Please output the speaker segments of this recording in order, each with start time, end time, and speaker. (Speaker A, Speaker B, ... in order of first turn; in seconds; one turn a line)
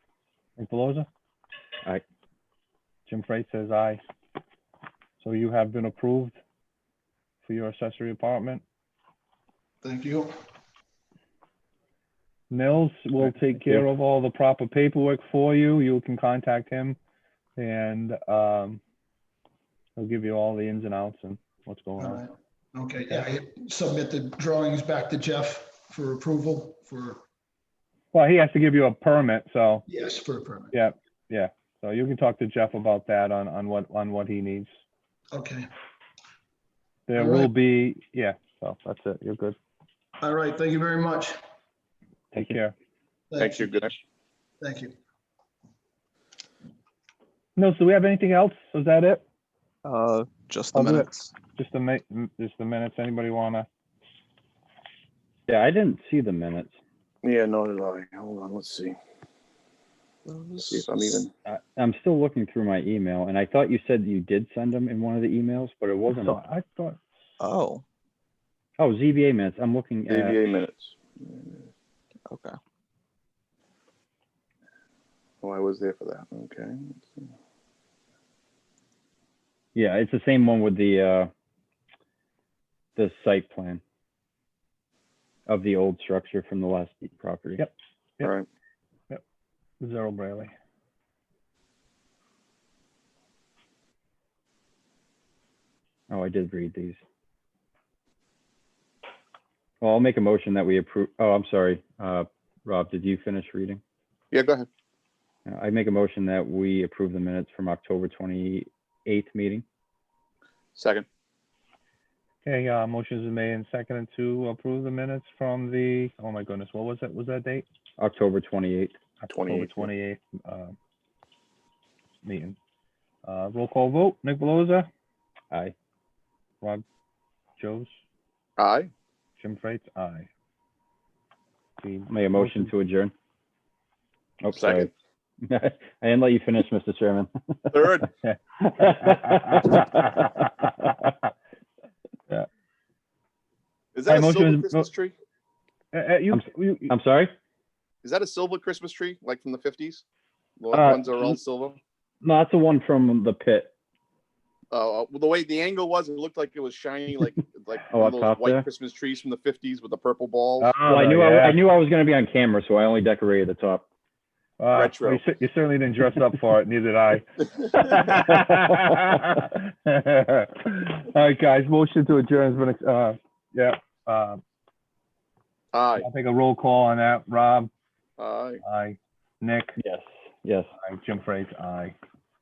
Speaker A: 0.6-1.1
Speaker A: 3.1-4.0
Speaker A: 5.2-6.3
Speaker A: 7.4-8.6
Speaker B: 9.8-10.3
Speaker A: 12.5-17.0
Speaker A: 17.6-18.8
Speaker A: 19.9-22.2
Speaker B: 22.0-27.2
Speaker A: 28.1-29.8
Speaker B: 29.9-30.7
Speaker A: 30.7-34.7
Speaker B: 35.3-35.7
Speaker A: 37.1-39.5
Speaker B: 37.1-37.5
Speaker B: 40.2-41.4
Speaker A: 42.3-42.7
Speaker B: 43.3-44.0
Speaker C: 43.6-43.9
Speaker B: 44.6-44.9
Speaker A: 47.5-49.2
Speaker D: 49.8-51.3
Speaker A: 50.7-53.7
Speaker E: 55.5-56.7
Speaker C: 57.2-59.0
Speaker D: 60.2-61.1
Speaker C: 60.6-61.3
Speaker E: 61.4-66.4
Speaker A: 66.1-67.0
Speaker D: 67.4-67.8
Speaker E: 68.8-70.4
Speaker C: 70.1-71.7
Speaker D: 72.3-72.6
Speaker C: 75.4-77.3
Speaker E: 79.7-81.3
Speaker E: 83.0-83.8
Speaker E: 85.5-87.7
Speaker A: 87.6-88.3
Speaker A: 89.8-90.5
Speaker E: 96.1-97.0
Speaker E: 99.8-103.8
Speaker C: 104.3-104.7
Speaker E: 105.5-109.6
Speaker C: 110.7-111.0
Speaker A: 112.4-117.6
Speaker E: 118.0-119.0
Speaker A: 119.2-120.7
Speaker C: 119.3-119.8
Speaker A: 122.2-122.6
Speaker A: 123.2-124.9
Speaker A: 127.6-127.9
Speaker C: 128.6-128.9
Speaker A: 129.4-130.3
Speaker A: 131.8-132.7
Speaker E: 132.1-133.1
Speaker E: 134.4-134.9
Speaker C: 134.5-134.9
Speaker E: 135.4-138.0
Speaker C: 137.7-138.0
Speaker E: 138.6-140.2
Speaker A: 138.8-139.9
Speaker C: 144.0-145.1
Speaker A: 144.1-144.9
Speaker A: 145.9-146.9
Speaker E: 146.3-147.3
Speaker C: 148.0-150.0
Speaker C: 150.6-151.8
Speaker E: 150.7-151.4
Speaker E: 152.2-153.7
Speaker C: 154.7-160.7
Speaker E: 157.9-158.7
Speaker A: 160.6-161.6
Speaker E: 160.8-163.8
Speaker A: 164.6-174.4
Speaker C: 164.7-165.2
Speaker A: 176.0-177.7
Speaker C: 178.2-178.6
Speaker A: 178.6-179.8
Speaker E: 179.8-180.7
Speaker A: 180.8-181.9